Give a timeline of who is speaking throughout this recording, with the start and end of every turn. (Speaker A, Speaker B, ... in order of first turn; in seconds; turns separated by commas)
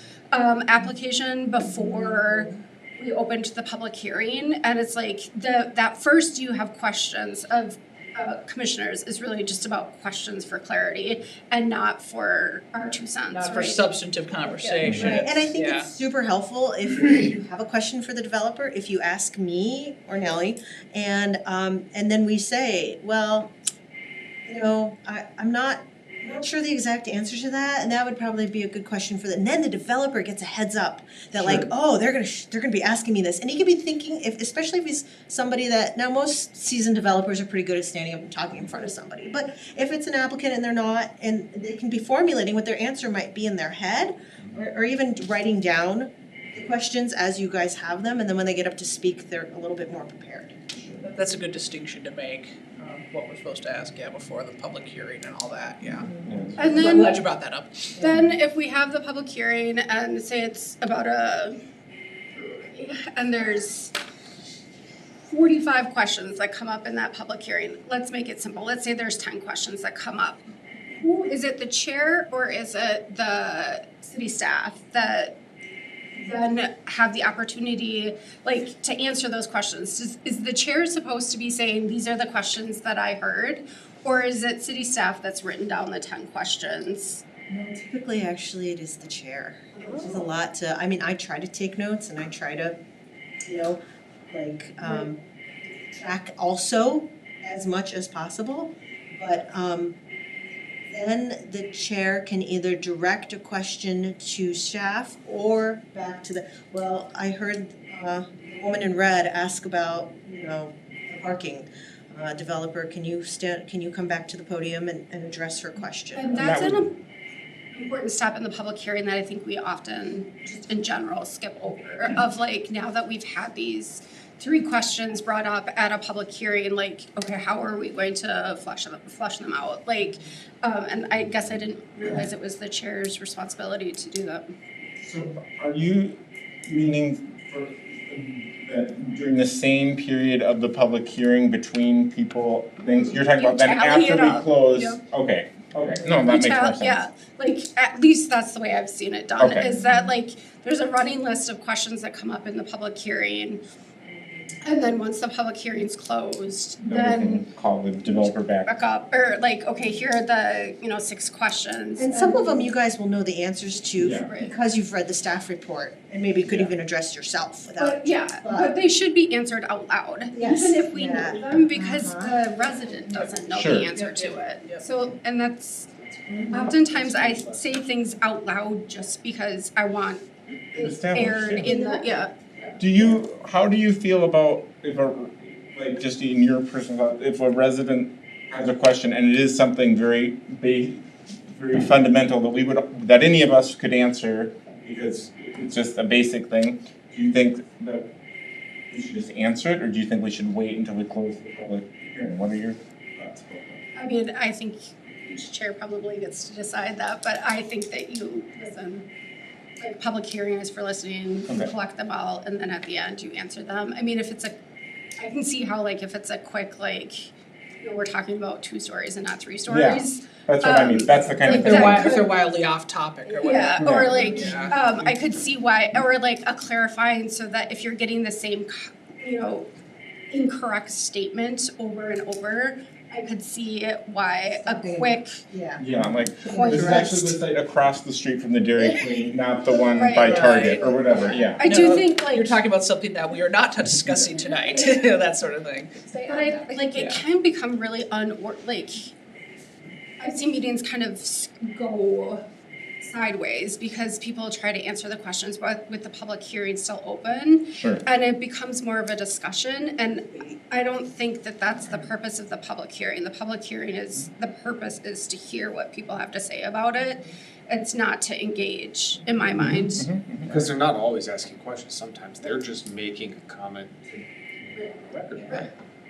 Speaker A: 0.3-13.9, Speaker B: 13.3-15.9, Speaker C: 14.8-15.1, Speaker D: 14.9-23.5, Speaker D: 24.5-50.6, Speaker C: 50.7-51.0, Speaker B: 51.0-58.1, Speaker C: 56.2-56.7, Speaker A: 56.6-57.2, Speaker A: 58.0-61.6, Speaker A: 62.3-63.9, Speaker A: 65.2-70.4, Speaker A: 70.9-75.4, Speaker A: 76.2-87.2, Speaker D: 87.5-92.8, Speaker D: 93.5-95.2, Speaker D: 95.8-100.0, Speaker D: 100.9-116.6, Speaker A: 116.1-116.9, Speaker C: 116.3-116.9, Speaker A: 117.7-134.5, Speaker C: 135.0-147.0, Speaker A: 142.9-145.0, Speaker A: 146.2-153.6, Speaker C: 149.4-149.8, Speaker A: 154.6-157.4, Speaker C: 156.8-158.7, Speaker A: 158.0-162.7, Speaker D: 162.0-168.7, Speaker C: 164.0-164.2, Speaker A: 164.2-164.5, Speaker C: 166.4-166.7, Speaker A: 167.8-175.9, Speaker D: 170.3-172.3, Speaker C: 173.5-173.9, Speaker B: 173.9-174.8, Speaker E: 176.0-177.8, Speaker A: 176.5-182.7, Speaker C: 180.7-181.8, Speaker D: 181.6-182.1, Speaker C: 182.8-198.1, Speaker C: 198.9-203.8, Speaker A: 203.9-209.1, Speaker A: 209.8-214.6, Speaker A: 215.2-222.3, Speaker C: 219.7-222.2, Speaker B: 221.4-224.8, Speaker A: 223.3-229.7, Speaker C: 223.8-224.2, Speaker A: 230.3-235.4, Speaker D: 234.6-235.8, Speaker C: 235.8-241.6, Speaker D: 236.4-237.1, Speaker A: 236.5-237.3, Speaker A: 239.9-242.5, Speaker D: 240.3-241.4, Speaker B: 241.6-247.2, Speaker A: 246.2-249.1, Speaker A: 250.2-252.4, Speaker A: 253.0-270.1, Speaker C: 257.7-258.0, Speaker C: 269.6-270.6, Speaker E: 270.4-275.7